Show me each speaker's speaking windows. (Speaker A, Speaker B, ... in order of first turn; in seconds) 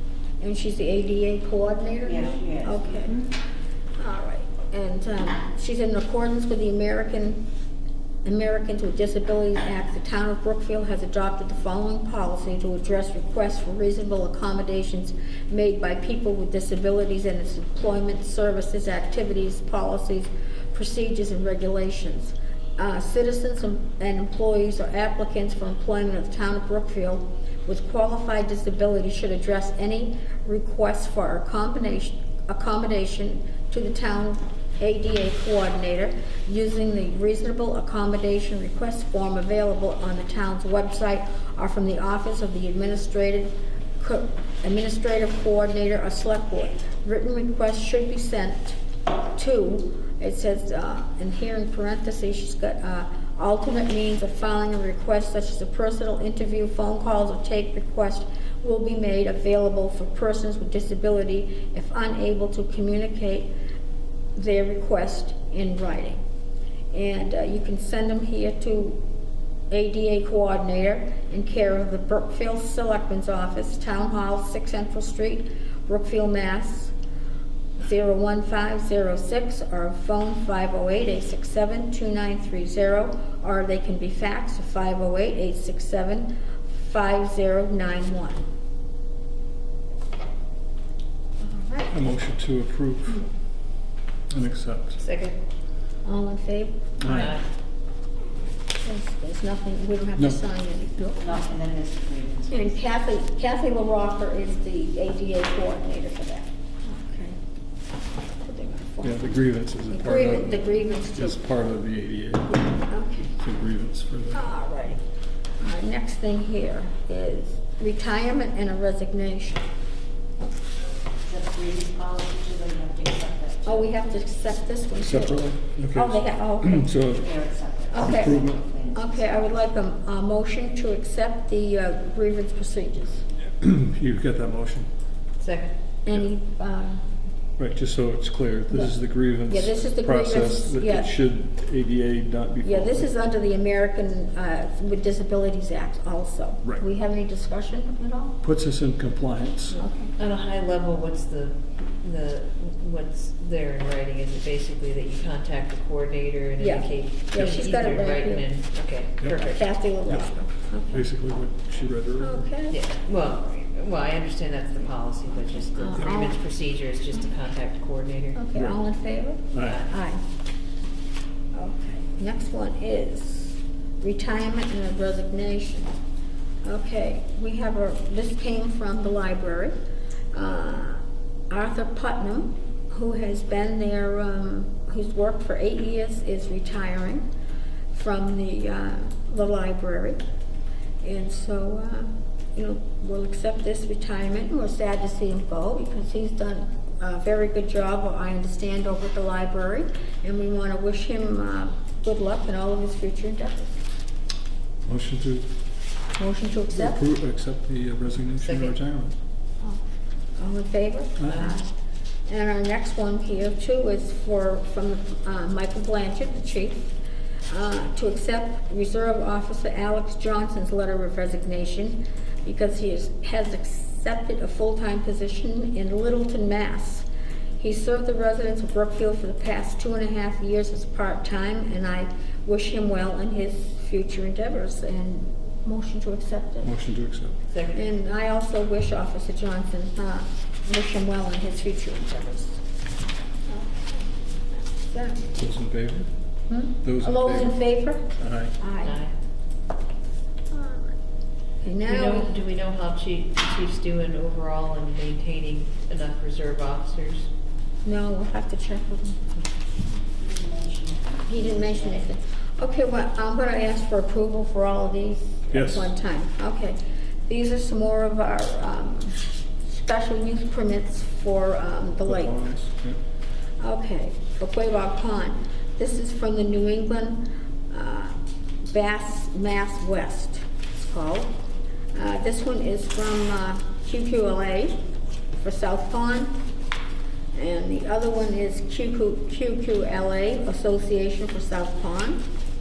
Speaker A: 0.4-3.2, 4.0-7.4, 8.2-48.8, 49.4-63.5, 64.3-66.2, 66.9-69.0, 69.7-76.9, 77.8-88.4, 91.4-91.9, 96.0-97.3, 98.8-101.5, 102.5-107.4, 108.4-109.4, 109.9-111.4, 112.5-113.3, 114.3-115.0, 115.6-119.7, 123.6-126.9, 127.9-133.2, 136.0-137.0, 139.5-141.1, 142.6-148.3, 149.7-150.1, 156.6-158.4, 159.4-161.1, 162.2-162.8, 165.7-166.4, 168.3-170.2, 171.5-175.9, 176.6-179.7, 180.3-187.2, 187.9-190.2, 191.0-203.8, 206.2-207.0, 210.4-211.7, 212.3-216.9, 217.5-227.1, 227.6-236.7, 237.7-242.6, 243.5-245.3, 246.5-249.0, 250.5-250.9, 251.6-252.3, 257.8-259.3, 261.3-266.8, 267.3-272.3, 273.6-278.1, 278.7-281.3, 281.9-284.8, 285.4-286.3, 287.3-292.2
Speaker B: 2.0-3.2, 101.2-102.7, 121.2-123.9, 127.1-129.2, 260.1-262.0
Speaker C: 91.9-93.2, 94.3-95.0, 97.0-97.4, 109.0-112.8, 113.3-114.5, 125.0-127.4, 128.0-128.6, 133.5-134.9, 137.6-143.1, 148.4-149.8, 160.1-160.3, 160.9-162.5, 169.5-169.8, 204.8-205.5, 206.7-209.1, 211.2-211.5, 236.6-237.4, 245.3-246.1, 246.8-247.6, 248.2-248.5, 265.5-265.9, 272.0-273.0
Speaker D: 95.0-95.4, 97.0-97.4, 135.4-135.7, 150.2-159.7, 162.7-168.4, 208.4-208.7, 237.5-237.9, 248.8-249.1, 251.8-257.3